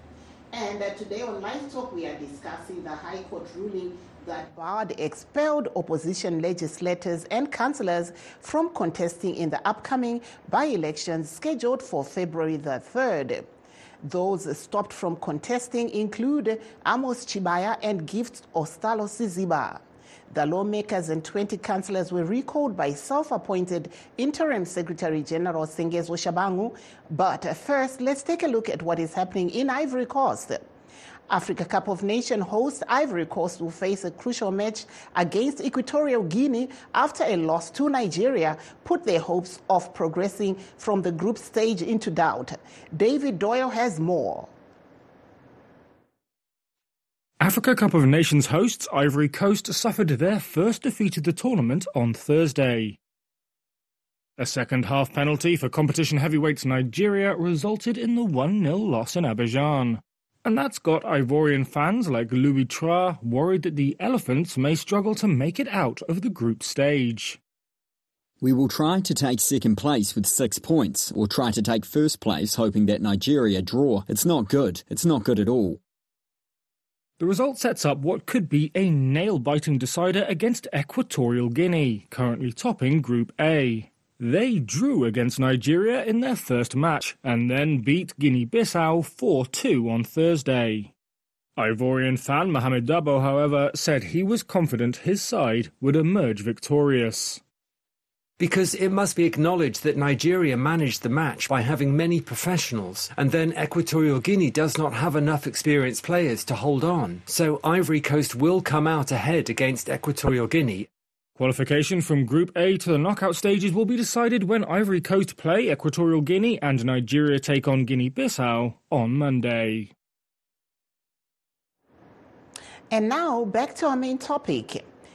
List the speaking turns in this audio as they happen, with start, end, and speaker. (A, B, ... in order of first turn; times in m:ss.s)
0:00.5-0:13.4 A
0:14.0-0:30.6 A
0:31.3-0:44.5 A
0:47.4-0:53.0 B
0:54.4-1:07.4 B
1:08.4-1:15.8 C
1:17.2-1:30.9 B
1:31.6-1:37.4 B
1:38.4-1:50.9 D
1:51.4-1:59.9 B
2:02.9-2:04.8 A